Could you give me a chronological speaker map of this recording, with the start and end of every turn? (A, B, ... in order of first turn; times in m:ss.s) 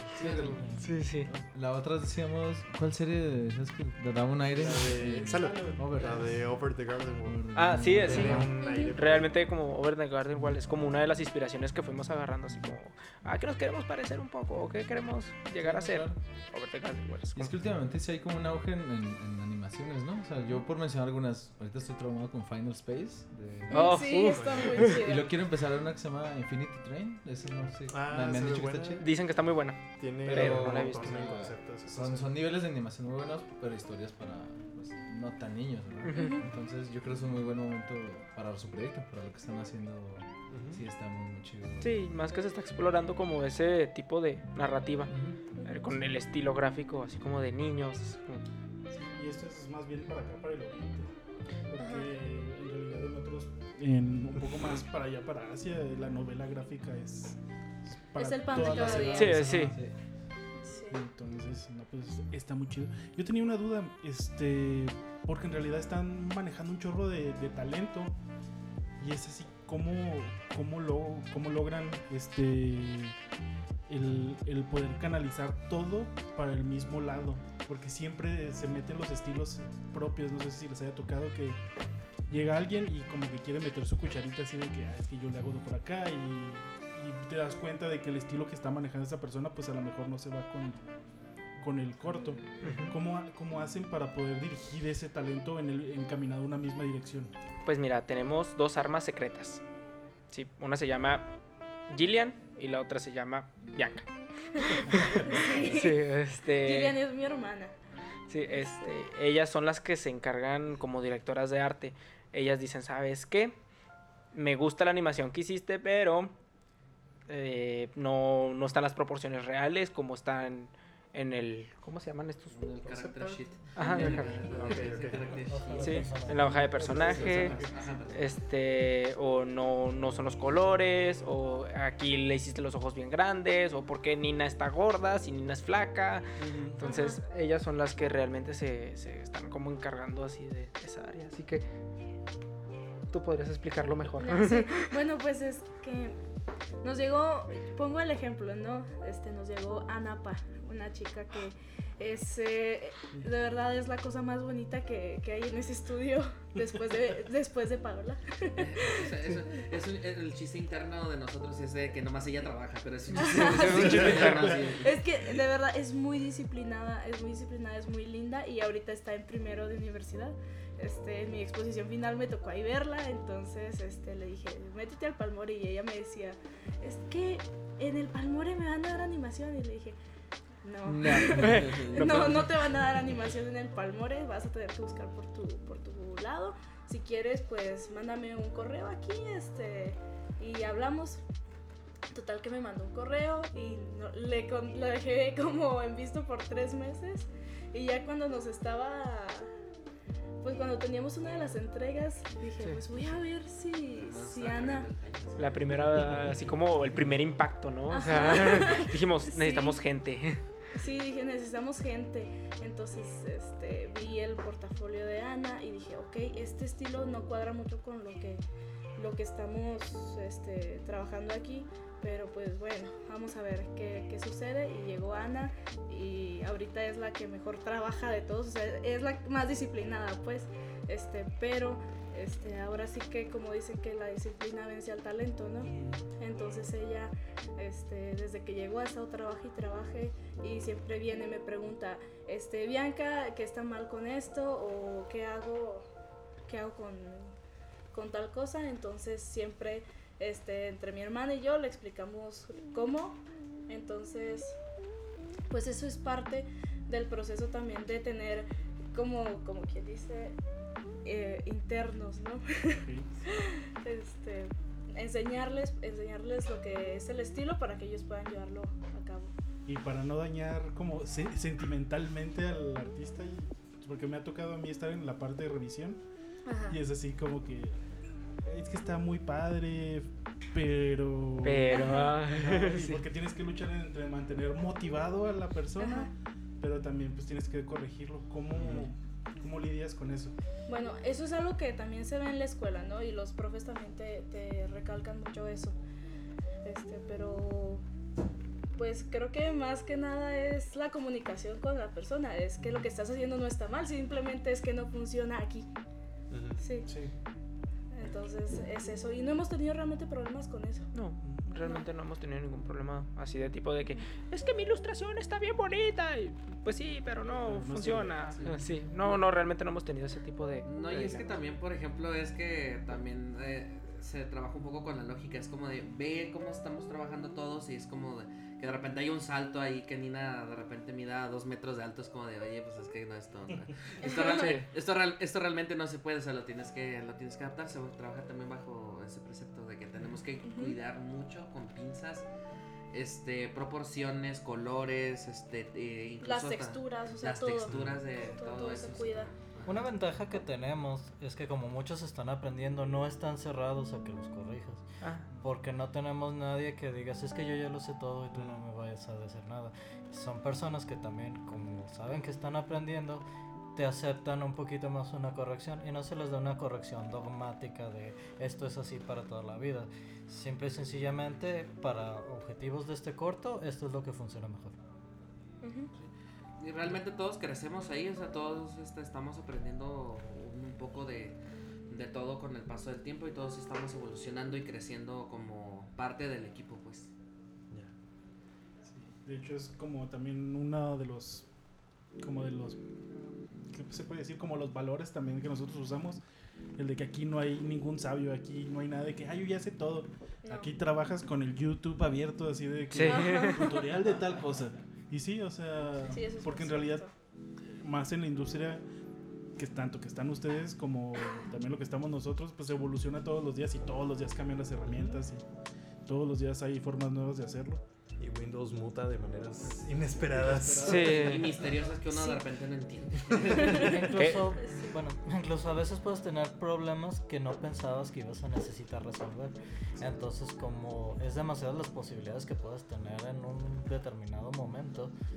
0:00.2-0:06.4 A
0:00.8-0:01.3 B
0:04.6-0:09.4 C
0:05.0-0:06.2 D
0:07.2-0:08.6 A
0:07.6-0:17.5 B
0:08.6-0:09.0 E
0:10.4-0:11.0 A
0:15.6-0:16.2 A
0:17.4-0:29.0 A
0:23.7-0:25.0 B
0:23.7-0:25.3 E
0:24.2-0:24.7 C
0:27.9-0:29.2 C
0:29.0-0:31.3 B
0:30.0-0:32.3 C
0:30.2-0:42.0 A
0:36.0-0:36.4 B
0:36.2-0:36.4 E
0:41.8-0:48.4 B
0:45.1-0:45.4 A
0:45.6-0:45.9 E
0:48.9-0:51.2 D
0:51.7-0:59.9 D
0:51.8-0:52.2 E
0:58.2-0:59.4 E
0:58.9-0:59.7 B
1:00.6-1:01.0 E
1:00.9-1:08.2 D
1:09.0-1:13.2 D
1:13.9-1:21.6 D
1:22.3-1:30.9 D
1:31.6-1:37.3 D
1:32.6-1:32.9 B
1:37.6-1:39.6 B
1:40.3-1:41.3 B
1:41.9-1:44.1 B
1:44.6-1:47.7 E
1:44.7-1:47.0 B
1:48.3-1:53.6 B
1:48.5-1:49.0 E
1:54.3-1:56.3 B
1:57.3-2:02.7 B
2:02.5-2:06.2 F
2:02.9-2:03.4 C
2:03.8-2:04.4 B
2:04.2-2:05.5 C
2:05.5-2:06.9 G
2:05.8-2:21.6 B
2:05.8-2:06.3 D
2:06.7-2:07.5 C
2:06.8-2:08.3 F
2:06.9-2:07.7 D
2:16.4-2:16.8 D
2:16.8-2:17.2 E
2:23.1-2:24.9 B
2:24.2-2:26.2 E
2:26.8-2:39.1 E
2:38.6-2:45.0 F
2:43.1-3:00.0 E
2:43.1-2:44.7 B
3:00.6-3:11.2 E
3:00.9-3:01.9 A
3:01.1-3:02.6 B
3:02.0-3:02.2 F
3:12.1-3:19.5 E
3:20.4-3:24.9 E
3:24.0-3:26.5 F
3:25.4-3:30.4 B
3:27.9-3:29.8 E
3:30.8-3:38.4 E
3:39.0-4:05.9 E
3:55.6-3:56.0 D
4:06.4-4:07.3 E
4:07.9-4:14.6 E
4:15.5-4:20.4 E
4:21.0-4:29.3 E
4:22.8-4:23.2 D
4:29.7-4:36.0 D
4:36.5-4:36.8 E
4:36.7-4:37.8 D
4:38.4-4:50.4 D
4:41.4-4:43.0 B
4:41.7-4:42.1 E
4:45.8-4:46.1 E
4:50.7-4:55.8 E
4:56.6-4:57.8 E
4:58.8-5:05.7 E
5:06.3-5:06.6 C
5:06.6-5:06.9 E
5:06.9-5:07.1 D
5:07.9-5:10.9 E
5:10.9-5:21.4 B
5:11.2-5:11.6 D
5:11.6-5:11.9 E
5:17.3-5:18.6 D
5:18.3-5:19.2 F
5:20.6-5:42.3 F
5:34.0-5:34.6 E
5:40.4-5:40.8 E
5:42.9-5:49.9 F
5:46.2-5:49.3 E
5:49.7-5:54.8 G
5:55.4-6:14.8 G
6:15.6-6:15.9 E
6:16.0-6:21.4 F
6:21.9-6:27.1 F
6:28.9-6:31.5 D
6:32.2-6:32.8 D
6:33.7-6:36.2 D
6:36.8-6:47.1 D
6:40.4-6:40.7 E
6:42.9-6:43.6 B
6:43.0-6:43.9 E
6:46.0-6:47.1 E
6:47.8-6:48.8 D
6:49.6-6:55.4 D
6:56.0-6:57.8 D
6:58.2-7:01.2 C
6:59.8-7:01.8 D
7:00.8-7:01.6 B
7:01.0-7:04.1 F
7:02.1-7:02.4 E
7:03.6-7:03.9 E
7:03.7-7:15.1 G
7:04.1-7:04.5 B